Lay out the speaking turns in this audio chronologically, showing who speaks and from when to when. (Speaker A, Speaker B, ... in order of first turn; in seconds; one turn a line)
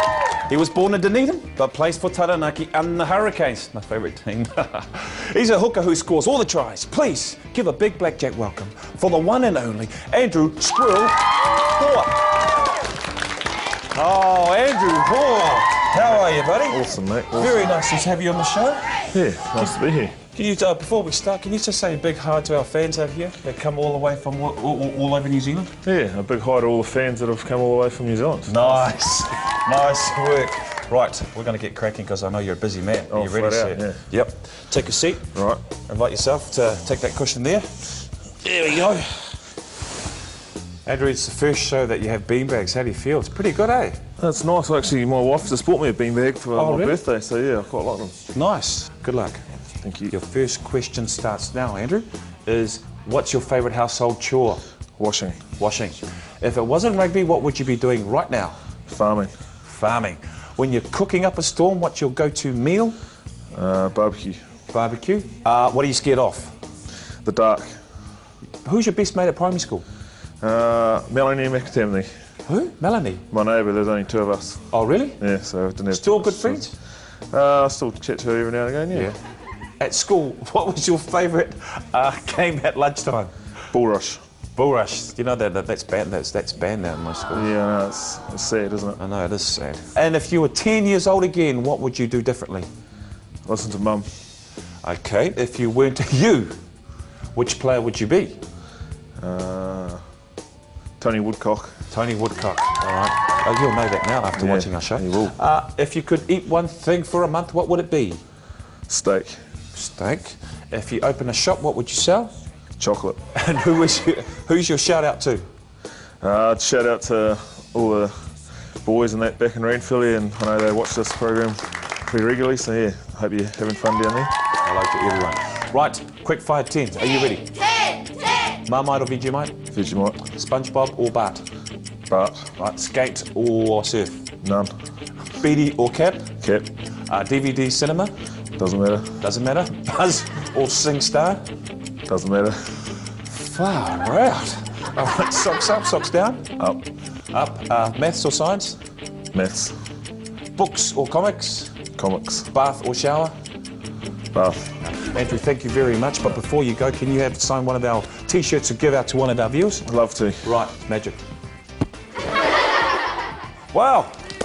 Speaker A: 0.5-12.3
Speaker A: 13.9-19.0
Speaker B: 16.7-17.7
Speaker B: 19.1-20.2
Speaker A: 20.2-25.7
Speaker B: 25.8-28.9
Speaker A: 28.5-35.3
Speaker B: 33.1-34.0
Speaker B: 35.3-35.6
Speaker A: 35.9-37.7
Speaker A: 38.4-39.3
Speaker A: 40.8-44.0
Speaker B: 44.2-48.1
Speaker A: 46.5-47.0
Speaker A: 48.3-49.4
Speaker B: 49.8-50.1
Speaker A: 50.1-54.6
Speaker B: 55.0-55.4
Speaker A: 55.6-58.5
Speaker B: 58.9-59.3
Speaker A: 59.6-63.0
Speaker B: 63.5-64.4
Speaker A: 64.7-66.5
Speaker B: 67.2-67.7
Speaker A: 68.6-69.8
Speaker B: 70.4-72.1
Speaker A: 72.5-73.2
Speaker B: 73.3-74.6
Speaker A: 74.7-75.2
Speaker B: 75.2-76.7
Speaker A: 75.9-76.7
Speaker B: 77.3-79.1
Speaker A: 78.9-79.2
Speaker A: 79.8-83.3
Speaker B: 83.7-84.2
Speaker A: 84.5-87.5
Speaker B: 87.3-89.0
Speaker A: 89.0-92.7
Speaker B: 93.5-94.1
Speaker A: 94.8-96.5
Speaker A: 97.3-98.4
Speaker B: 99.2-100.0
Speaker B: 101.0-101.8
Speaker A: 101.9-108.2
Speaker B: 104.4-105.3
Speaker B: 108.9-109.3
Speaker A: 109.7-112.3
Speaker B: 112.8-113.2
Speaker A: 113.3-115.5
Speaker B: 116.2-118.1
Speaker B: 118.8-124.3
Speaker A: 124.6-127.5
Speaker A: 128.7-129.6
Speaker B: 129.7-130.2
Speaker A: 130.3-131.4
Speaker B: 132.1-132.5
Speaker A: 132.6-134.2
Speaker B: 134.4-134.7
Speaker A: 135.4-136.3
Speaker B: 136.4-136.7
Speaker A: 137.1-138.1
Speaker B: 138.6-139.2
Speaker A: 139.2-141.4
Speaker B: 142.1-142.6
Speaker A: 143.2-146.5
Speaker A: 147.3-148.8
Speaker B: 149.3-149.7
Speaker A: 150.6-151.7
Speaker B: 152.0-152.5
Speaker A: 152.5-153.3
Speaker B: 154.3-154.7
Speaker A: 154.9-159.8
Speaker B: 159.8-160.4
Speaker A: 160.4-161.2
Speaker A: 163.7-164.2